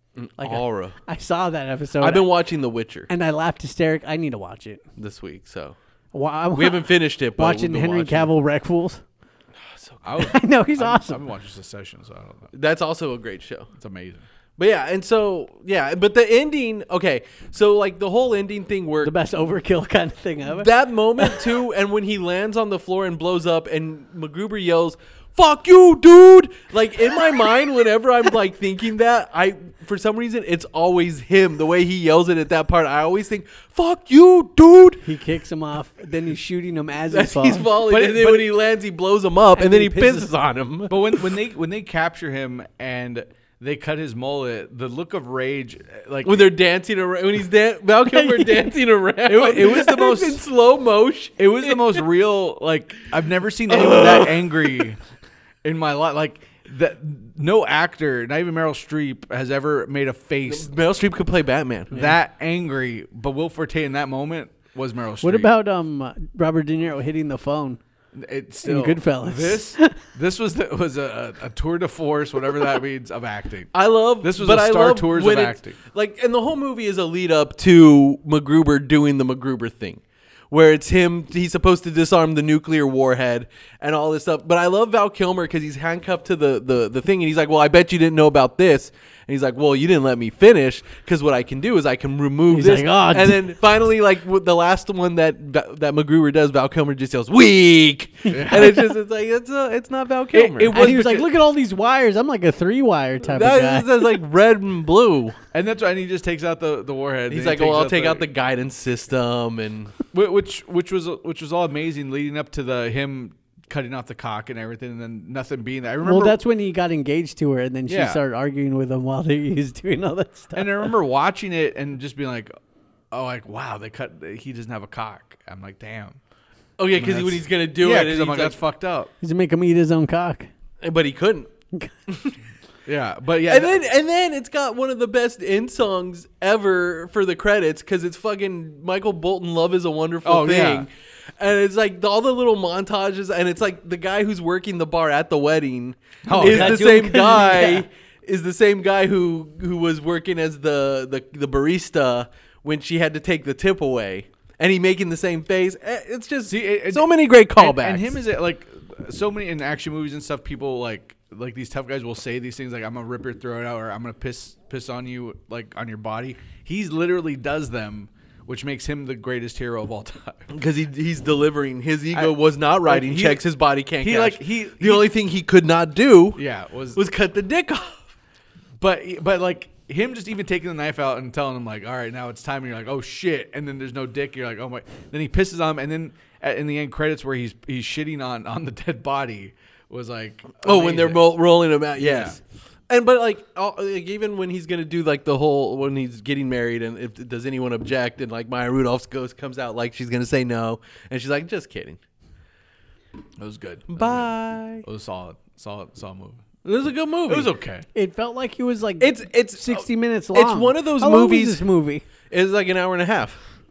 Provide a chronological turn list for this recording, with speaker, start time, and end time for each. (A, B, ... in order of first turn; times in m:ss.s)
0:00.2-0:01.0 A
0:00.4-0:02.3 B
0:02.0-0:03.1 A
0:03.1-0:04.8 B
0:05.0-0:05.7 A
0:06.1-0:09.0 B
0:06.5-0:08.3 A
0:09.6-0:10.0 A
0:10.0-0:12.5 C
0:10.2-0:11.2 B
0:12.5-0:13.7 A
0:13.8-0:14.2 C
0:14.6-0:19.1 A
0:19.0-0:21.4 B
0:20.5-0:35.0 A
0:35.0-0:37.7 B
0:37.1-0:41.2 A
0:37.8-0:38.5 C
0:39.5-0:40.3 B
0:40.9-0:46.5 C
0:46.2-0:52.0 A
0:48.1-0:48.7 B
0:49.2-0:50.4 C
0:51.4-0:55.0 C
0:53.7-0:54.5 A
0:55.6-1:00.7 C
1:00.4-1:02.0 A
1:01.9-1:05.5 C
1:05.2-1:07.8 B
1:08.1-1:15.8 C
1:08.6-1:10.0 B
1:13.7-1:40.9 A
1:32.5-1:33.5 B
1:38.3-1:38.8 C
1:40.3-1:41.3 C
1:40.7-1:44.2 B
1:43.2-1:45.4 A
1:45.5-1:48.2 C
1:47.3-1:49.9 A
1:50.1-1:56.4 C
1:56.0-2:00.9 B
1:57.9-1:58.2 C
2:00.5-2:02.5 C
2:03.1-2:06.2 C
2:06.8-2:08.6 A
2:06.9-2:09.1 C
2:09.2-2:10.5 B
2:10.8-2:11.5 A
2:12.1-2:12.4 A
2:12.8-2:13.8 C
2:13.5-2:38.2 A
2:20.2-2:20.9 C
2:26.2-2:27.0 C
2:26.3-2:27.8 B
2:36.5-2:50.5 C
2:50.5-2:56.4 A
2:52.1-2:53.4 C
2:54.0-2:55.1 C
2:56.3-2:57.0 C
2:56.9-2:58.1 A
2:58.8-3:11.4 C
3:10.6-3:22.0 A
3:12.0-3:12.4 C
3:23.4-3:26.5 C
3:23.9-3:24.8 A
3:26.6-3:27.5 A
3:27.3-3:27.8 C
3:27.9-3:32.0 B
3:29.0-3:31.7 A
3:32.3-3:33.4 A